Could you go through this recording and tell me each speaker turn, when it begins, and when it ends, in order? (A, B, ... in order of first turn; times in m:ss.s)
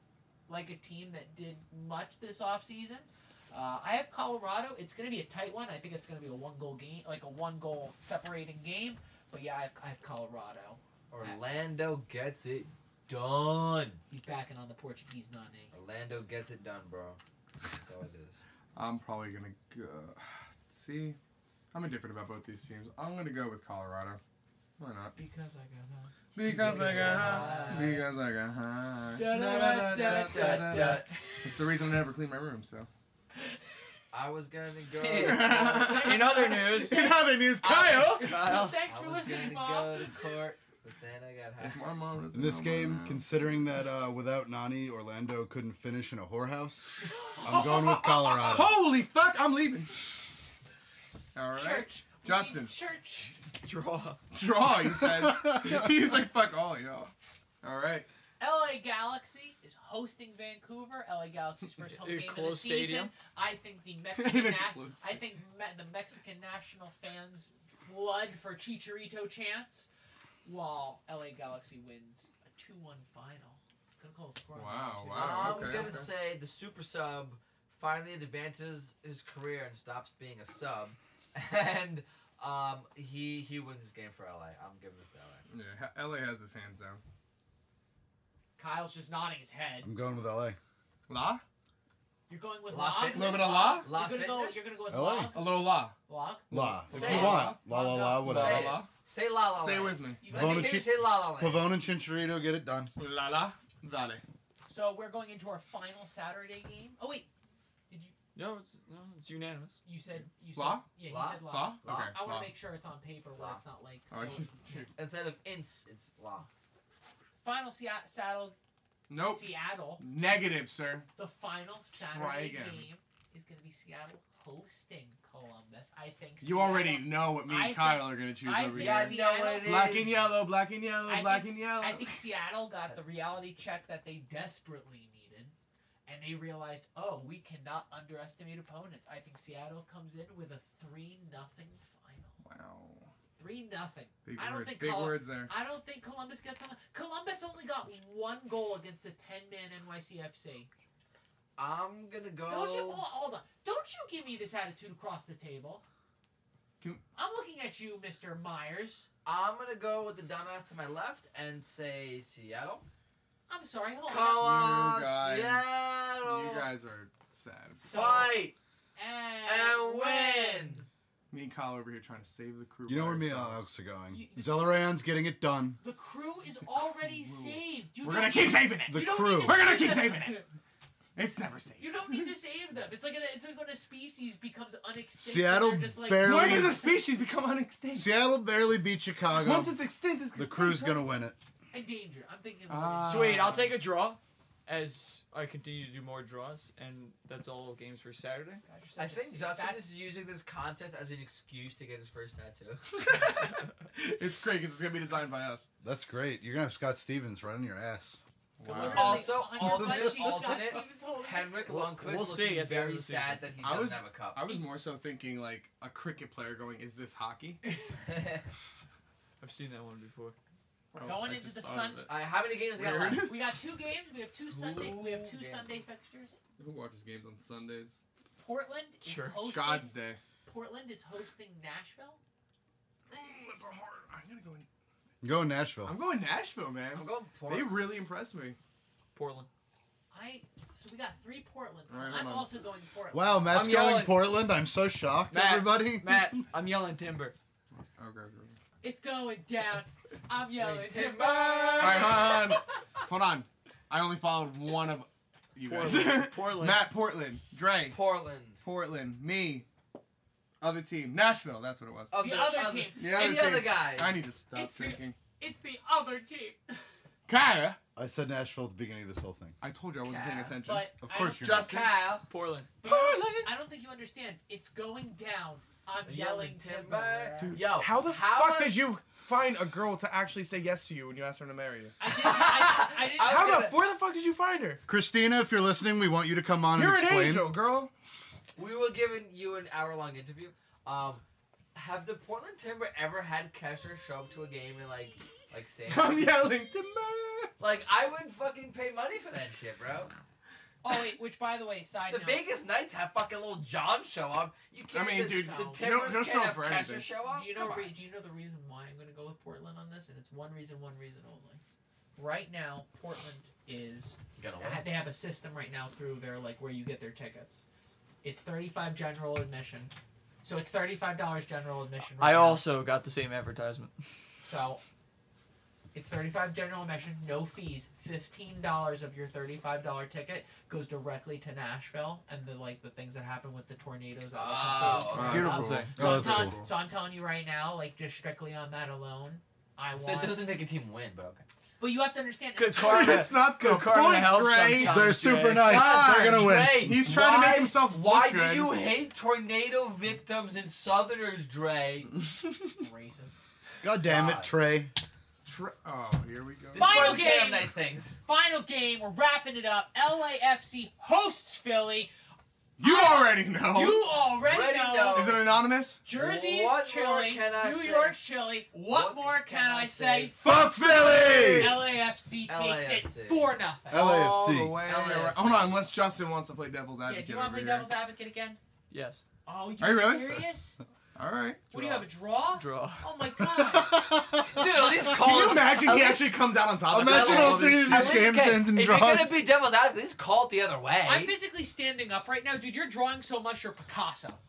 0:00.5-0:11.4 A
0:11.1-0:14.0 B
0:14.1-0:15.7 A
0:15.7-0:17.2 B
0:17.7-0:18.4 B
0:18.7-0:21.2 C
0:21.7-0:24.2 C
0:24.8-0:25.1 C
0:25.2-0:28.0 A
0:26.3-0:32.9 C
0:26.5-0:28.1 B
0:29.1-0:31.5 A
0:30.0-0:31.1 B
0:34.1-0:36.1 B
0:35.0-0:40.3 A
0:35.1-0:38.4 C
0:35.9-0:37.1 D
0:38.1-0:38.8 D
0:38.8-0:41.8 B
0:41.6-0:43.3 C
0:42.3-0:48.7 E
0:46.9-0:47.8 C
0:47.0-0:48.6 A
0:48.4-0:50.2 C
0:51.3-0:52.7 C
0:51.5-0:53.4 A
0:53.6-0:54.2 D
0:54.3-0:58.1 C
0:58.4-1:09.9 A
1:02.0-1:03.1 D
1:04.1-1:05.2 C
1:10.4-1:16.1 A
1:14.5-1:16.1 C
1:15.1-1:25.4 B
1:25.5-1:27.0 C
1:28.6-1:29.9 A
1:29.8-1:30.6 E
1:31.1-1:31.4 C
1:32.3-1:38.7 A
1:32.7-1:34.6 B
1:33.1-1:33.9 C
1:34.9-1:35.3 E
1:35.3-1:35.9 C
1:36.5-1:38.8 E
1:36.5-1:37.6 C
1:36.9-1:37.5 B
1:38.2-1:38.9 C
1:38.2-1:41.7 B
1:39.5-1:40.2 C
1:40.2-1:40.8 A
1:40.3-1:42.9 E
1:43.0-1:44.2 C
1:44.7-1:47.3 A
1:47.9-1:48.1 A
1:48.3-1:49.8 D
1:49.8-1:54.9 A
1:50.6-1:52.5 C
1:51.1-1:52.2 B
1:54.1-1:54.9 C
1:55.0-1:56.5 B
1:57.4-1:58.5 A
1:59.1-2:01.1 C
1:59.2-2:00.1 A
2:01.2-2:10.0 A
2:02.1-2:02.9 C
2:06.4-2:12.2 C
2:08.7-2:10.4 B
2:11.0-2:15.5 A
2:16.1-2:22.3 A
2:22.4-2:23.1 C
2:23.4-2:30.7 A
2:24.2-2:25.5 C
2:31.6-2:33.0 B
2:32.4-2:35.8 A
2:37.2-2:39.1 A
2:39.2-2:42.8 B
2:43.5-2:44.5 A
2:44.1-2:46.7 B
2:44.3-2:47.8 C
2:47.8-2:48.3 A
2:47.8-2:48.5 B
2:49.0-2:50.8 A
2:49.4-2:50.8 B
2:51.3-2:53.7 C
2:52.9-2:55.8 E
2:54.1-2:54.8 A
2:55.8-3:00.4 A
2:57.0-3:00.4 C
2:58.9-2:59.6 E
3:01.2-3:02.4 C
3:01.8-3:07.0 A
3:05.2-3:06.9 E
3:06.2-3:08.1 C
3:07.9-3:09.8 E
3:09.3-3:11.0 C
3:10.3-3:11.4 E
3:11.7-3:13.6 A
3:12.7-3:13.8 C
3:13.0-3:18.6 D
3:18.6-3:19.8 A
3:19.0-3:22.8 B
3:23.0-3:25.7 C
3:25.8-3:28.2 E
3:28.6-3:29.5 C
3:28.6-3:31.7 A
3:28.7-3:34.5 B
3:31.6-3:33.5 D
3:33.6-3:37.6 C
3:38.0-3:38.5 B
3:39.4-3:40.4 D
3:40.9-3:41.3 C
3:41.0-3:42.1 A
3:41.1-3:42.1 D
3:42.1-3:43.3 B
3:42.7-3:43.4 C
3:43.2-3:46.3 A
3:44.4-3:45.7 B
3:46.6-3:47.9 C
3:48.4-3:52.2 A
3:49.0-3:49.6 D
3:49.5-3:50.2 C
3:53.1-3:54.7 C
3:55.2-3:55.9 E
3:55.8-3:58.6 C
3:56.9-3:57.9 B
3:59.1-3:59.5 D
4:00.1-4:03.6 A
4:01.9-4:02.5 C
4:03.1-4:06.4 E
4:03.5-4:04.2 D
4:05.3-4:07.4 D
4:07.7-4:08.6 C
4:08.8-4:12.7 A
4:10.6-4:12.5 B
4:11.8-4:18.0 C
4:15.6-4:16.8 D
4:17.9-4:18.6 B
4:18.6-4:19.6 C
4:20.6-4:22.1 C
4:22.1-4:24.3 B
4:22.1-4:23.4 A
4:23.0-4:25.2 C
4:24.5-4:26.9 A
4:27.3-4:27.8 C
4:28.0-4:29.6 E
4:29.6-4:30.9 C
4:30.0-4:30.6 B
4:30.6-4:32.0 A
4:31.0-4:31.7 E
4:31.4-4:32.3 B
4:32.3-4:32.7 D
4:32.8-4:37.6 A
4:32.8-4:33.5 C
4:36.1-4:36.4 D
4:36.1-4:38.9 B
4:37.4-4:42.0 C
4:42.0-4:43.5 A
4:42.1-4:43.7 B
4:43.2-4:44.8 C
4:44.9-4:47.5 E
4:46.7-4:47.9 C
4:48.5-4:56.4 B
4:55.9-4:57.5 C
4:57.6-5:00.1 B
5:00.8-5:02.4 A
5:02.1-5:07.9 B
5:04.9-5:07.1 C
5:05.3-5:05.8 A
5:07.3-5:11.6 A
5:12.2-5:17.6 A
5:14.4-5:14.8 B
5:18.2-5:22.6 A
5:22.2-5:23.9 D
5:24.4-5:24.8 A
5:25.9-5:40.5 A
5:34.3-5:35.7 B
5:34.8-5:36.7 C
5:35.2-5:35.9 D
5:35.9-5:36.6 E
5:40.0-5:41.4 B
5:41.8-5:43.3 A
5:42.6-5:46.0 D
5:42.7-5:48.7 C
5:44.8-5:47.0 E
5:45.5-5:52.1 B
5:52.1-5:52.8 C
5:52.8-5:53.4 A
5:53.8-5:54.9 E
5:54.0-5:54.5 B
5:55.4-5:57.2 C
5:56.7-5:58.2 B
5:56.7-6:02.1 A
6:02.8-6:04.1 C
6:02.8-6:05.4 A
6:04.4-6:05.5 B
6:05.1-6:06.0 C
6:06.0-6:10.3 A
6:06.1-6:08.2 B
6:08.8-6:11.7 B
6:10.4-6:11.8 E
6:10.4-6:11.6 C
6:11.5-6:14.2 A
6:12.4-6:13.6 B
6:13.9-6:14.8 E
6:13.9-6:17.9 C
6:14.7-6:15.9 B
6:17.0-6:18.6 A
6:18.9-6:19.2 D
6:19.4-6:20.8 A
6:19.8-6:20.4 C
6:21.1-6:22.0 C
6:21.7-6:24.0 A
6:22.5-6:23.1 D
6:23.6-6:25.0 E
6:24.4-6:26.4 B
6:25.1-6:28.3 C
6:26.9-6:29.4 E
6:26.9-6:31.3 B
6:31.0-6:34.4 A